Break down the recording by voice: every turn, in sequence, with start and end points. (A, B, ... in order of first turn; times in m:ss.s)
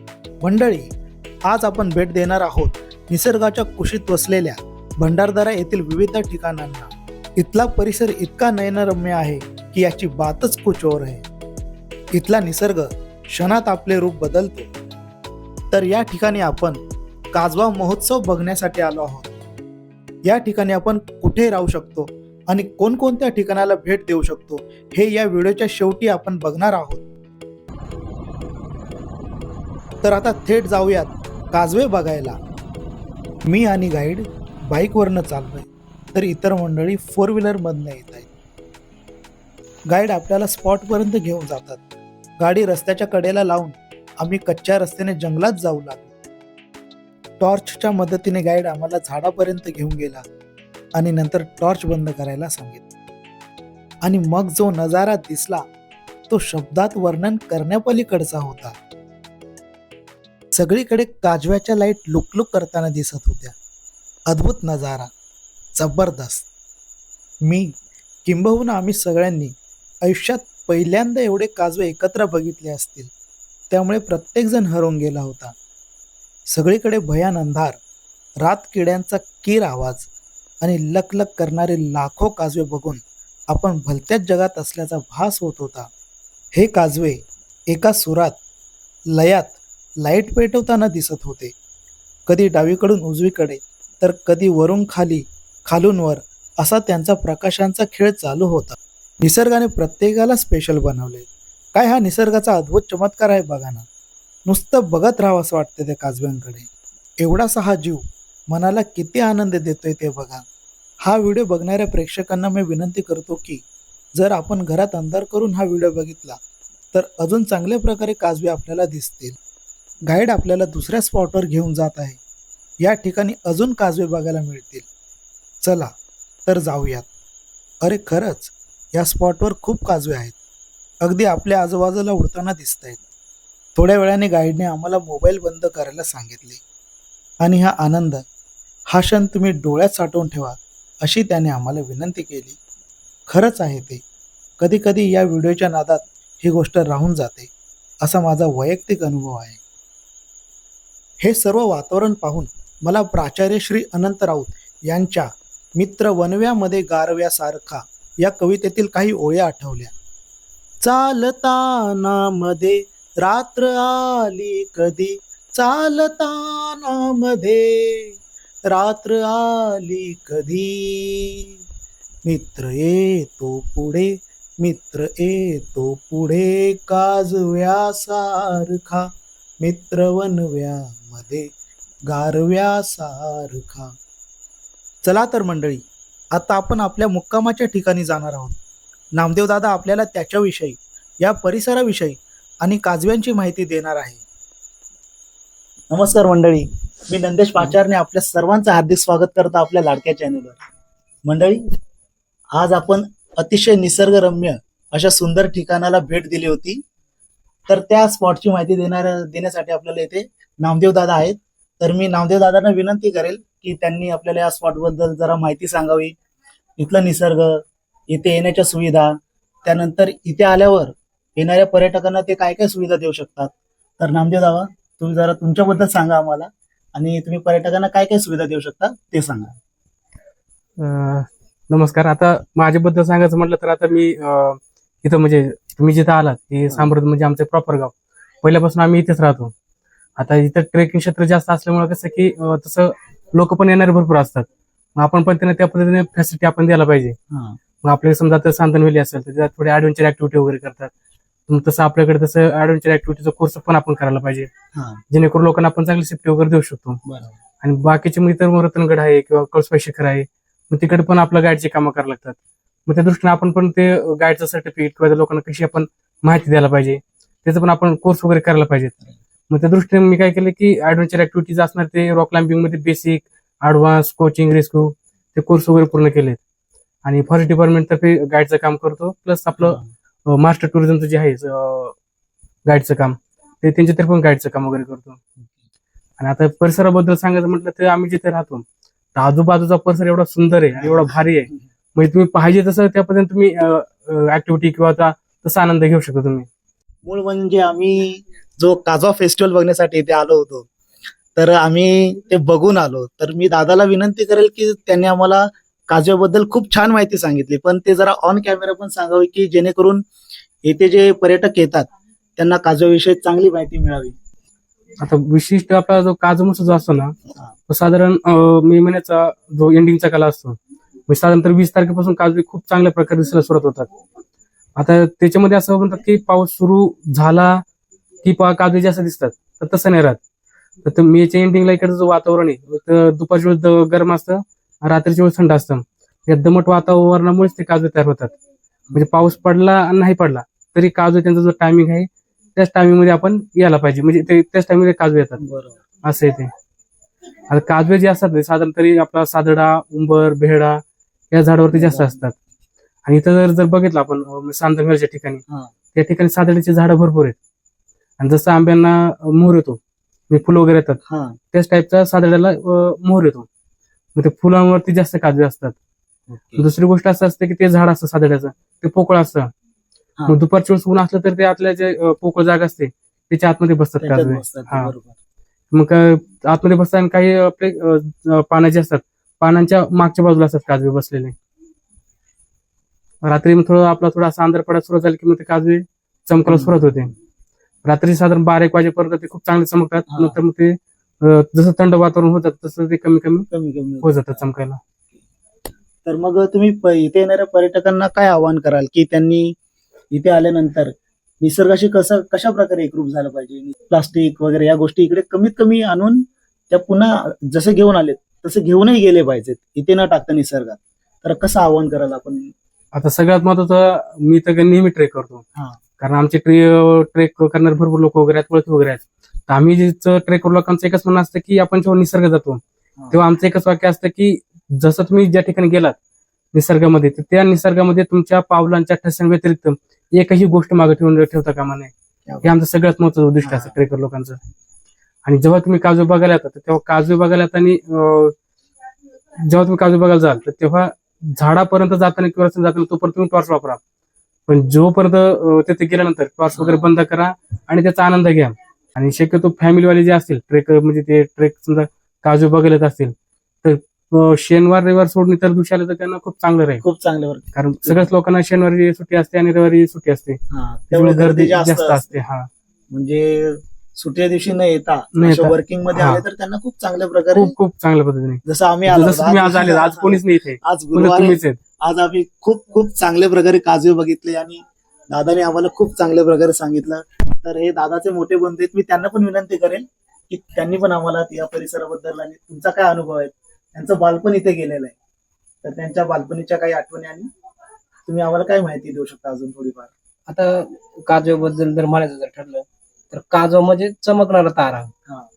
0:00.4-0:00.9 A
0:01.5-0:11.2 A
0:12.1-0:14.7 A
0:15.7-0:16.8 A
0:17.3-0:19.3 A
0:20.2-0:27.0 A
0:30.0-0:32.4 A
0:33.5-0:38.3 A
0:39.9-0:41.8 A
0:42.4-0:46.1 A
0:47.4-0:50.2 A
0:51.0-0:52.8 A
0:54.0-0:55.6 A
0:56.3-0:58.8 A
1:00.5-1:03.6 A
1:04.3-1:05.1 A
1:05.8-1:06.5 A
1:07.4-1:13.1 A
1:13.7-1:15.5 A
1:16.5-1:17.8 A
1:18.4-1:20.1 A
1:20.6-1:25.9 A
1:26.5-1:28.4 A
1:29.1-1:31.5 A
1:32.3-1:43.9 A
1:44.5-1:46.7 A
1:47.2-1:50.4 A
1:51.0-1:53.6 A
1:54.2-1:56.4 A
1:56.9-1:59.4 A
2:00.1-2:02.2 A
2:02.8-2:04.9 A
2:05.6-2:05.9 A
2:06.5-2:07.1 A
2:07.8-2:10.4 A
2:11.0-2:13.0 A
2:13.8-2:16.6 A
2:17.4-2:18.2 A
2:18.9-2:22.6 A
2:23.3-2:24.0 A
2:24.6-2:27.5 A
2:28.0-2:29.6 A
2:31.2-2:39.9 A
2:40.8-2:51.6 A
2:52.2-3:01.5 A
3:02.1-3:03.9 A
3:05.0-3:08.6 A
3:09.2-3:14.2 A
3:15.9-3:20.6 A
3:21.3-3:21.6 A
3:22.5-3:26.8 A
3:27.7-3:36.1 A
3:36.8-3:49.5 A
3:50.8-3:59.5 B
4:00.2-4:07.2 B
4:07.3-4:07.6 A
4:07.8-4:10.9 B
4:11.5-4:14.5 B
4:14.7-4:15.0 A
4:15.1-4:17.0 B
4:17.1-4:17.4 A
4:17.6-4:29.0 B
4:29.5-4:36.4 B
4:37.0-4:42.0 B
4:39.6-4:39.9 A
4:42.7-4:45.2 B
4:46.2-4:56.5 B
4:50.7-4:51.6 A
4:57.0-5:00.7 A
5:01.4-5:10.0 A
5:10.6-5:14.1 A
5:15.0-5:17.2 B
5:17.7-5:23.9 B
5:24.8-5:27.6 B
5:28.2-5:30.2 B
5:30.8-5:38.4 B
5:38.9-5:45.4 B
5:45.4-5:45.8 A
5:46.0-5:46.5 B
5:47.5-5:52.3 B
5:51.7-5:52.2 A
5:53.0-5:55.4 B
5:56.0-5:57.4 B
5:58.2-5:59.8 B
6:00.3-6:01.0 B
6:01.1-6:01.4 A
6:01.5-6:03.5 B
6:04.2-6:05.8 B
6:06.6-6:09.5 B
6:10.3-6:14.9 B
6:14.0-6:15.2 A
6:15.7-6:21.4 B
6:23.2-6:27.1 B
6:26.4-6:27.1 A
6:27.8-6:33.5 B
6:30.1-6:30.4 A
6:33.5-6:34.5 A
6:34.0-6:34.8 B
6:36.0-6:39.6 A
6:40.1-6:52.5 A
6:52.9-6:55.4 B
6:56.0-7:06.0 B
7:06.5-7:11.9 B
7:12.3-7:12.6 A
7:12.4-7:14.4 B
7:13.4-7:13.8 A
7:15.2-7:18.4 B
7:19.4-7:23.8 B
7:24.5-7:36.8 B
7:26.5-7:26.9 A
7:36.8-7:38.1 A
7:37.6-7:42.5 B
7:40.5-7:42.3 A
7:42.9-7:47.6 A
7:45.2-7:46.2 B
7:47.3-7:51.6 B
7:48.4-8:05.0 A
8:05.6-8:07.3 A
8:08.1-8:09.9 A
8:10.3-8:14.9 C